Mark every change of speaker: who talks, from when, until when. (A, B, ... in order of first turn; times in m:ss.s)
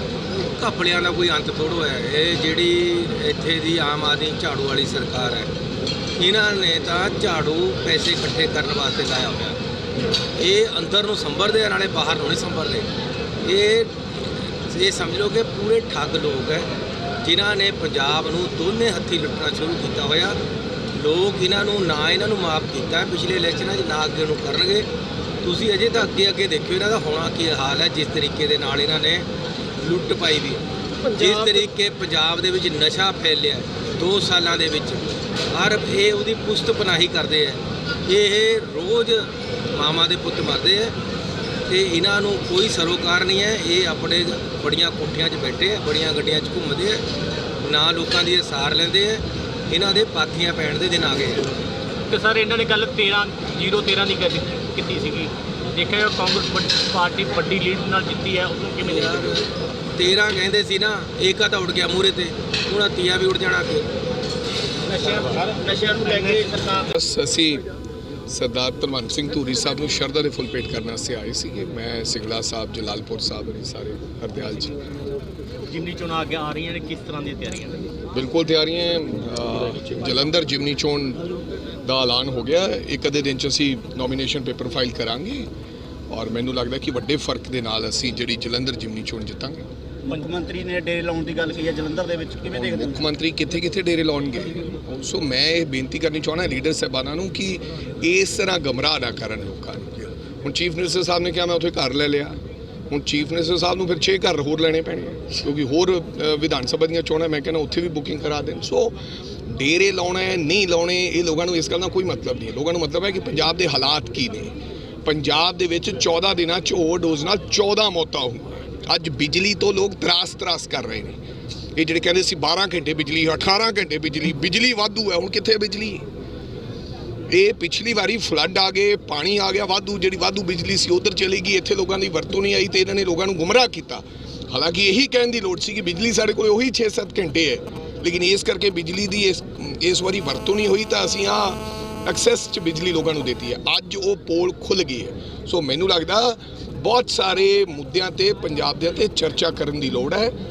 0:00.4-0:05.5 A
0:06.2-0:09.6 A
0:10.4-0:12.9 A
0:13.4-0:16.7 A
0:17.2-0:20.4 A
0:20.9-0:24.9 A
0:25.4-0:29.3 A
0:29.8-0:41.0 A
0:41.7-0:47.0 A
0:47.6-0:51.5 A
0:52.1-0:59.4 B
0:58.8-1:03.9 A
1:04.8-1:06.9 B
1:06.9-1:07.6 C
1:08.3-1:14.8 C
1:15.7-1:17.9 B
1:18.1-1:21.3 C
1:21.8-1:25.5 C
1:26.1-1:29.7 C
1:30.1-1:33.0 D
1:32.5-1:42.4 C
1:42.9-1:54.5 C
1:55.0-2:01.2 C
2:01.8-2:06.1 C
2:07.3-2:30.4 C